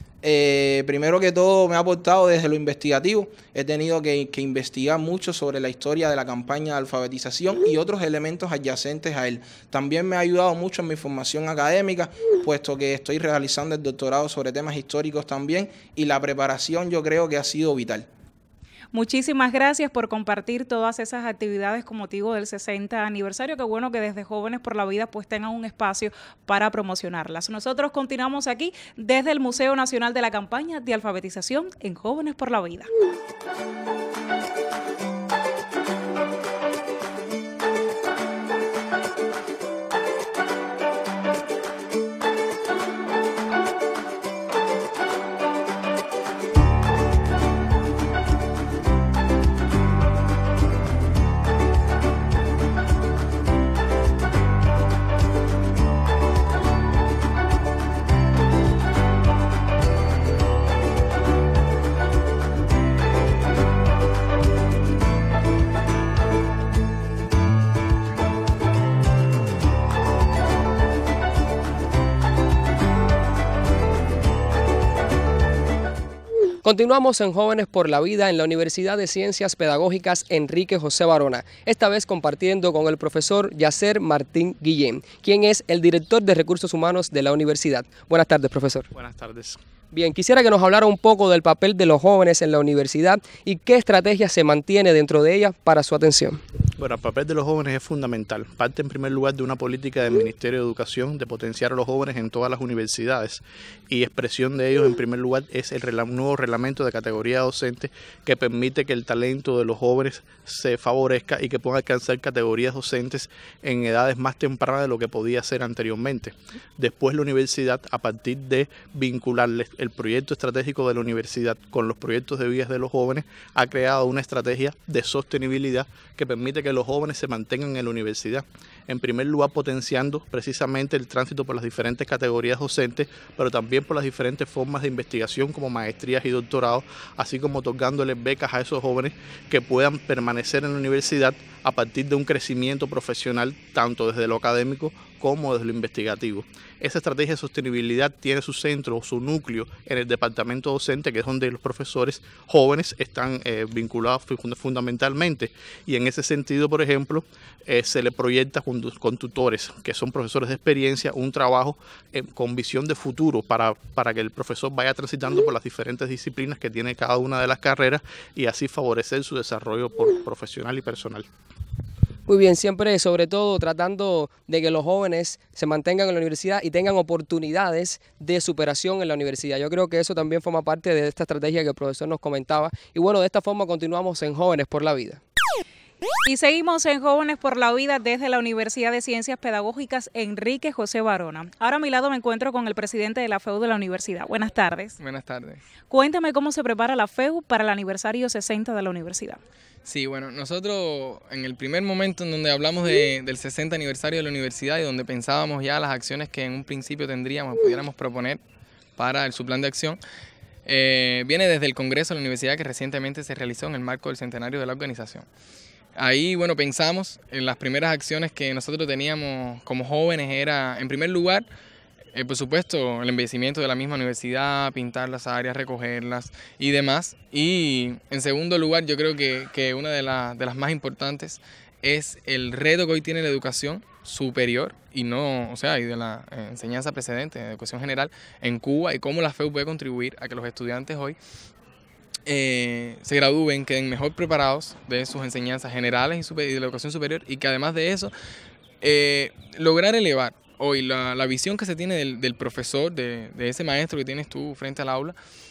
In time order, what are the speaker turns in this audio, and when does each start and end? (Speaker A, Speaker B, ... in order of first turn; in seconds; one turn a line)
Speaker A: 0.2-18.1
Speaker B: 18.9-32.9
Speaker C: 76.6-88.9
Speaker D: 88.9-89.6
Speaker C: 89.9-96.4
Speaker D: 96.8-171.3
Speaker C: 172.3-185.2
Speaker B: 186.2-195.0
Speaker E: 195.0-195.6
Speaker B: 195.9-199.4
Speaker E: 199.8-208.4
Speaker E: 209.0-210.0
Speaker E: 210.6-215.3
Speaker E: 215.9-221.4
Speaker E: 222.1-241.2
Speaker E: 242.2-248.1
Speaker E: 248.8-255.2